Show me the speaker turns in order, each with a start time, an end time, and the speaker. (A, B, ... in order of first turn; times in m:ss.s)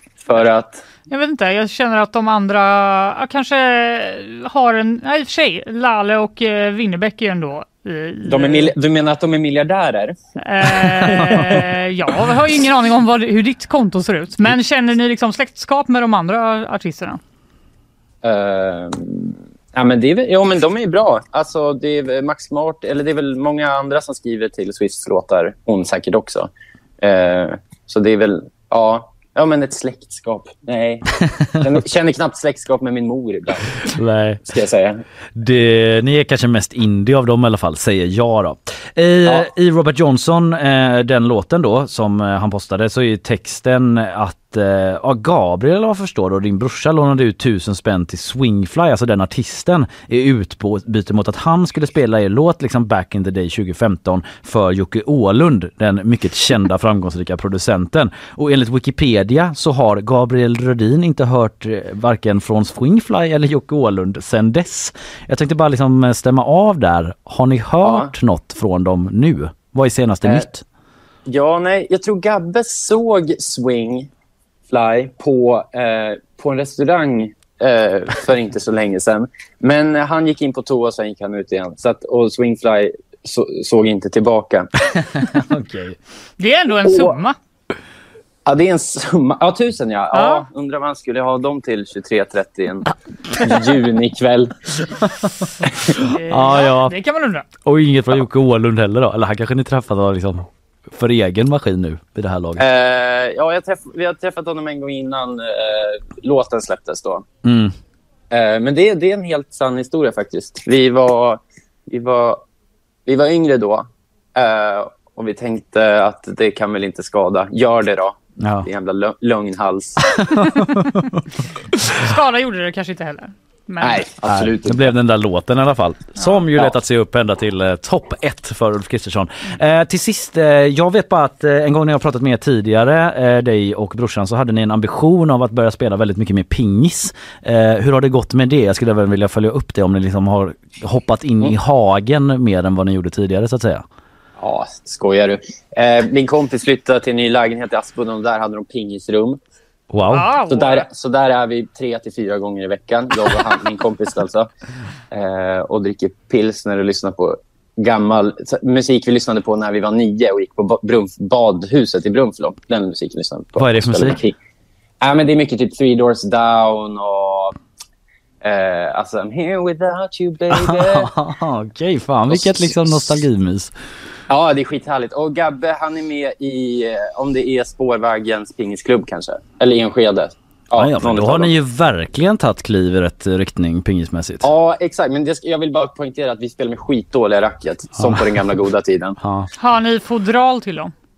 0:00.2-0:00.8 A
0:01.1-0:08.7 B
0:08.3-0:10.2 A
0:10.4-0:17.2 B
0:10.9-0:11.4 A
0:18.2-0:26.5 A
0:27.0-0:31.0 A
0:31.6-0:33.8 A
0:33.9-0:34.4 C
0:34.5-0:35.0 A
0:35.4-1:10.6 C
1:07.8-1:08.1 A
1:11.3-1:14.1 A
1:14.7-1:24.7 A
1:24.9-1:26.0 C
1:26.4-1:27.4 B
1:26.8-1:27.1 A
1:28.4-1:34.5 A
1:30.1-1:30.4 B
1:35.7-1:35.9 A
1:36.1-1:37.4 B
1:36.2-1:36.9 C
1:37.6-1:42.6 C
1:42.6-1:47.2 A
1:47.4-1:47.7 C
1:48.3-1:52.4 A
1:53.1-2:00.0 A
1:58.4-1:58.7 C
2:00.2-2:01.2 C
2:01.8-2:04.1 B
2:03.8-2:04.9 A
2:04.2-2:23.8 C
2:06.2-2:06.5 B
2:24.4-2:29.4 A
2:29.9-2:30.3 C
2:30.1-2:30.8 B
2:30.5-2:34.5 A
2:35.1-2:44.4 A
2:43.6-2:44.2 C
2:45.0-2:47.6 A
2:48.4-2:51.1 A
2:50.5-2:53.7 C
2:52.3-2:53.2 A
2:54.3-3:01.5 A
3:00.7-3:04.4 C
3:04.4-3:09.2 A
3:08.0-3:08.3 C
3:09.2-3:09.5 C
3:09.6-3:10.9 B